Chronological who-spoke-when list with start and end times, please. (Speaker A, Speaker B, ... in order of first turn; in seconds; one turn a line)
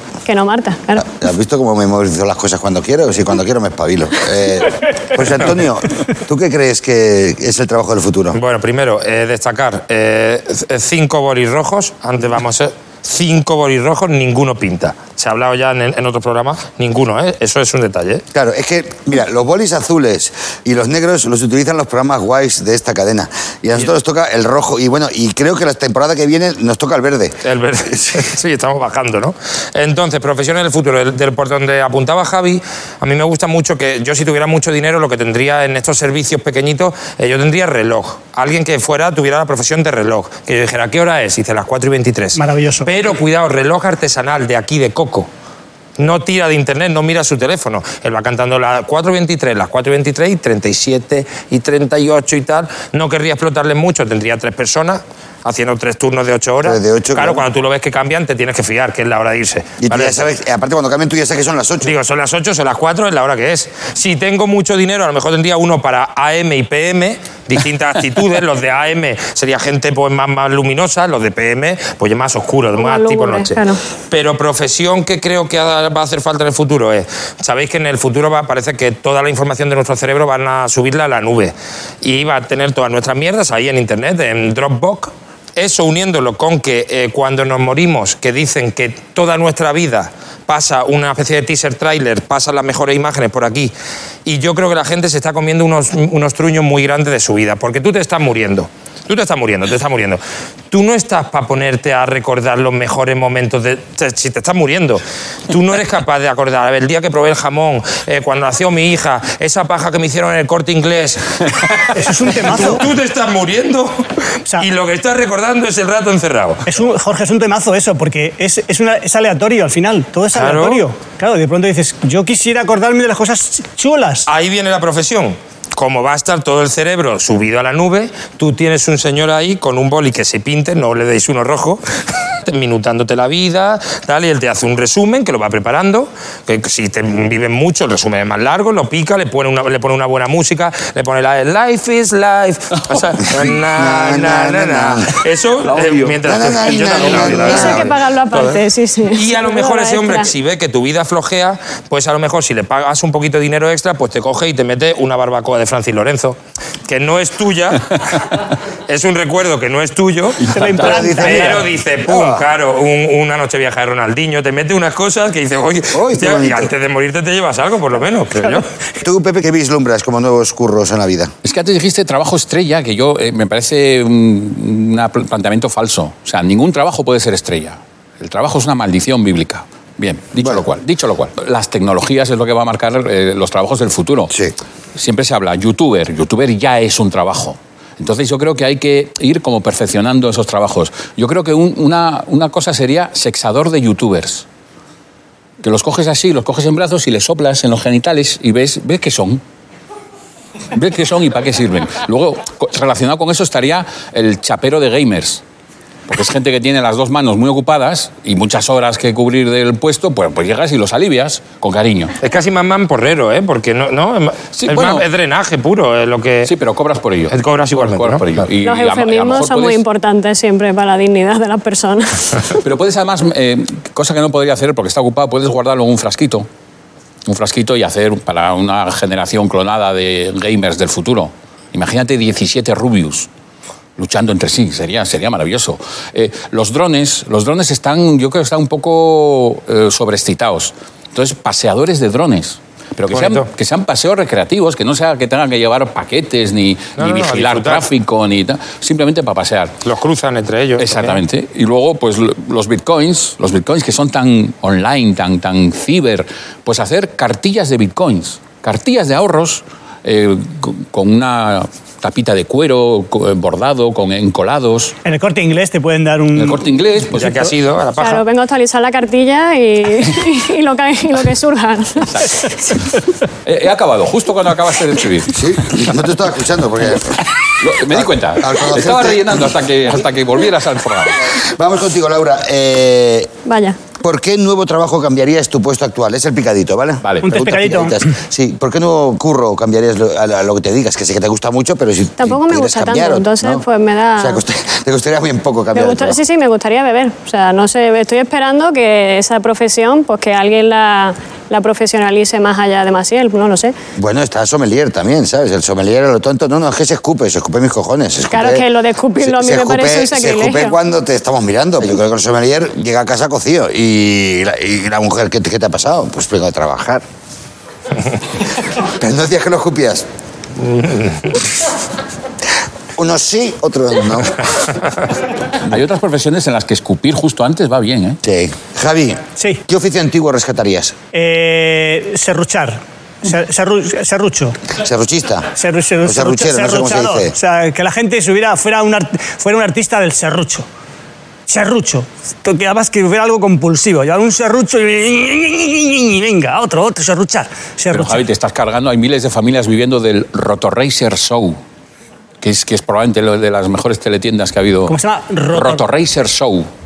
Speaker A: 0.2-1.1
Speaker B: 1.0-8.4
Speaker C: 8.3-18.2
Speaker B: 18.3-27.4
Speaker C: 27.4-45.3
Speaker B: 27.9-28.2
Speaker D: 42.4-42.9
Speaker C: 46.0-60.2
Speaker B: 56.6-57.4
Speaker B: 59.8-61.9
Speaker C: 61.8-73.6
Speaker A: 72.8-73.8
Speaker C: 74.1-93.7
Speaker C: 94.2-114.0
Speaker D: 111.9-112.9
Speaker C: 114.6-116.6
Speaker D: 116.7-124.3
Speaker C: 120.3-120.8
Speaker C: 124.3-131.8
Speaker C: 132.4-148.6
Speaker B: 143.7-145.1
Speaker E: 145.7-147.3
Speaker B: 146.2-147.9
Speaker A: 147.4-150.3
Speaker C: 149.1-158.0
Speaker C: 158.9-160.4
Speaker E: 160.4-161.1
Speaker D: 160.5-161.7
Speaker B: 160.8-162.5
Speaker C: 161.0-168.7
Speaker B: 165.9-166.7
Speaker B: 169.0-171.3
Speaker E: 171.4-184.3
Speaker B: 180.4-180.6
Speaker E: 184.9-194.4
Speaker E: 195.6-199.4
Speaker E: 200.7-205.4
Speaker E: 206.1-212.1
Speaker C: 212.2-216.5
Speaker E: 214.6-215.1
Speaker E: 216.4-219.8
Speaker C: 217.3-218.2
Speaker A: 218.6-222.4
Speaker E: 222.6-226.5
Speaker E: 227.2-233.3
Speaker E: 234.0-249.8
Speaker C: 243.1-243.5
Speaker C: 247.0-247.9
Speaker C: 249.8-251.2
Speaker E: 250.8-264.9
Speaker D: 265.0-266.6
Speaker E: 266.3-267.5
Speaker C: 267.1-268.2
Speaker A: 268.0-272.8
Speaker E: 272.1-272.5
Speaker E: 273.4-275.4
Speaker B: 275.3-277.2
Speaker E: 277.6-281.2
Speaker B: 277.9-279.5
Speaker B: 281.3-283.3
Speaker A: 283.4-283.8
Speaker B: 284.0-293.6
Speaker E: 287.0-287.3
Speaker D: 287.3-288.1
Speaker A: 292.2-294.4
Speaker B: 294.2-296.2
Speaker A: 295.7-303.7
Speaker B: 303.9-308.7
Speaker A: 308.3-310.8
Speaker B: 309.2-317.0
Speaker B: 318.8-320.0
Speaker C: 320.6-321.3
Speaker B: 322.9-324.5
Speaker E: 325.6-328.2
Speaker B: 328.2-330.9
Speaker D: 331.1-334.6
Speaker B: 334.8-335.5
Speaker D: 335.6-340.6
Speaker B: 336.0-337.3
Speaker D: 341.5-348.2
Speaker E: 347.9-351.6
Speaker E: 352.4-355.0
Speaker D: 354.9-355.9
Speaker E: 355.5-356.7